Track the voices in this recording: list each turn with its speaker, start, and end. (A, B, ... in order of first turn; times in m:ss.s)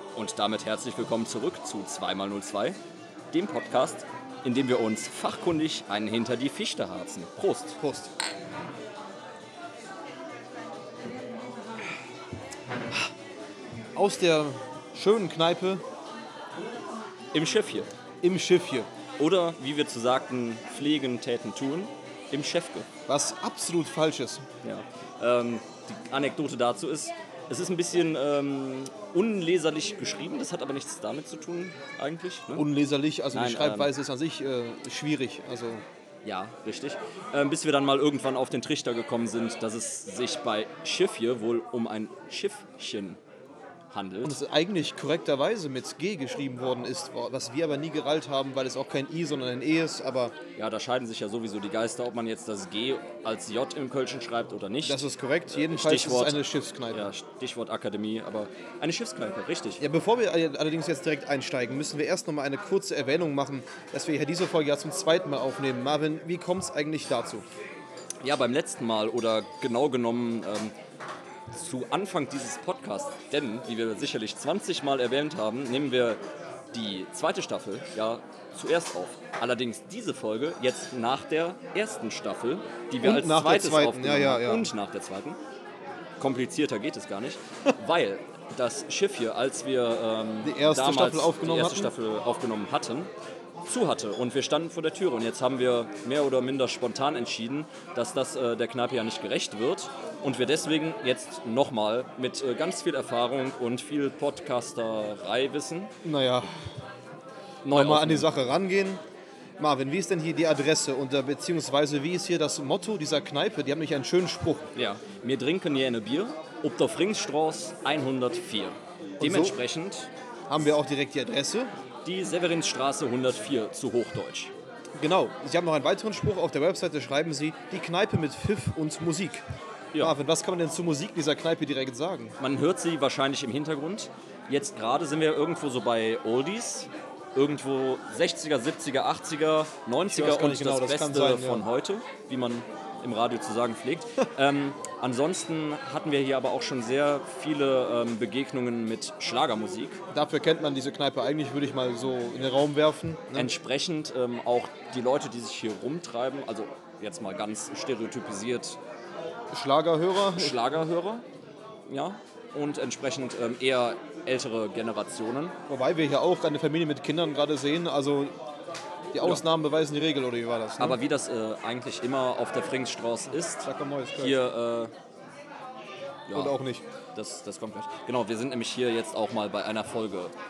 0:00.2-0:02.8 A
0:03.3-0:07.8 A
0:07.8-0:08.1 B
0:13.9-0:15.8 B
0:17.3-0:17.9 A
0:18.2-0:18.9 B
0:19.2-0:22.9 A
0:23.1-0:24.4 B
0:24.6-0:32.7 A
0:32.5-0:35.8 B
0:33.3-0:33.9 A
0:36.2-0:43.2 A
0:43.9-0:44.4 A
0:44.2-0:50.3 B
0:50.6-0:56.4 A
0:54.8-0:57.1 B
0:56.9-0:59.8 A
0:59.8-1:07.4 B
1:08.2-1:10.8 A
1:11.5-1:16.2 A
1:16.7-1:25.4 A
1:23.0-1:24.7 B
1:26.2-1:33.1 A
1:30.4-1:31.9 B
1:33.7-1:45.9 A
1:46.0-1:46.7 B
1:47.6-1:48.3 A
1:47.7-1:49.0 B
1:49.6-1:54.7 B
1:54.8-2:00.1 A
1:59.2-1:59.6 B
2:00.5-2:01.7 B
2:02.0-2:04.5 A
2:05.0-2:09.4 B
2:10.0-2:12.4 B
2:12.4-2:30.0 A
2:20.1-2:21.7 B
2:30.1-2:33.5 B
2:33.3-2:38.8 A
2:39.5-2:40.6 B
2:40.3-2:41.3 A
2:41.9-2:45.6 A
2:45.7-2:48.3 B
2:49.1-2:51.0 B
2:50.8-2:54.9 A
2:53.6-2:54.4 B
2:56.3-2:56.6 A
2:56.3-2:56.8 B
2:57.2-3:00.3 A